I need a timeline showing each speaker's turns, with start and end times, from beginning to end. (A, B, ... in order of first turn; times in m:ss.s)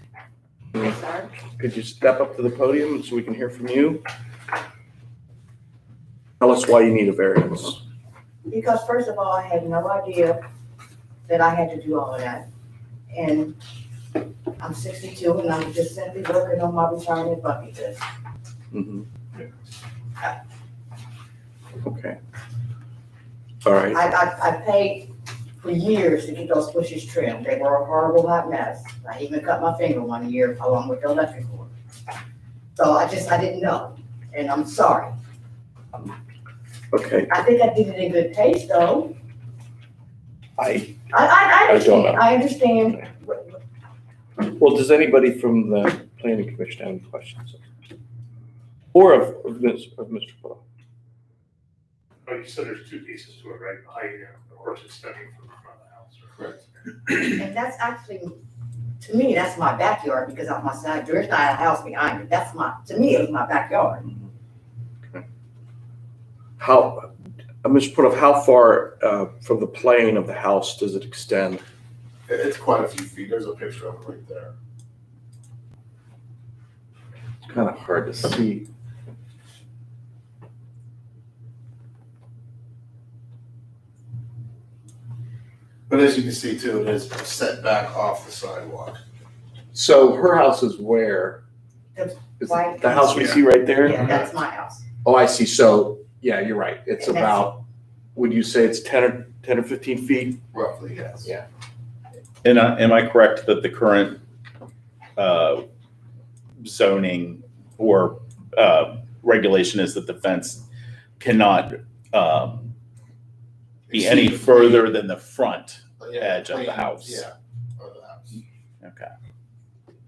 0:00.7-0:01.3 A
0:01.4-0:04.0 B
0:06.4-0:07.8 B
0:08.4-0:10.4 A
0:11.3-0:12.4 A
0:13.1-0:13.6 A
0:14.6-0:18.0 A
0:18.7-0:19.0 B
0:21.8-0:22.2 B
0:23.6-0:24.1 B
0:23.9-0:31.7 A
0:32.8-0:35.1 A
0:36.9-0:37.3 B
0:37.3-0:39.1 A
0:40.6-0:41.0 B
0:41.1-0:43.6 A
0:41.6-0:42.2 B
0:44.4-0:47.6 B
0:48.9-0:50.6 B
0:52.2-0:56.5 C
0:57.1-0:58.4 A
0:59.0-1:04.0 A
1:06.6-1:07.1 B
1:07.6-1:11.6 B
1:12.3-1:14.5 D
1:17.4-1:18.7 B
1:25.9-1:29.0 D
1:29.7-1:31.4 B
1:31.9-1:34.8 A
1:32.4-1:34.1 B
1:33.1-1:33.4 C
1:35.0-1:37.6 B
1:37.0-1:37.5 A
1:38.1-1:40.4 B
1:40.5-1:41.3 D
1:42.4-1:44.2 E
1:45.2-1:45.6 E
1:46.6-1:50.6 E
1:51.2-1:52.7 E
1:53.9-1:54.7 D
1:53.9-1:57.2 E
1:56.0-1:58.4 D
1:58.8-1:59.1 E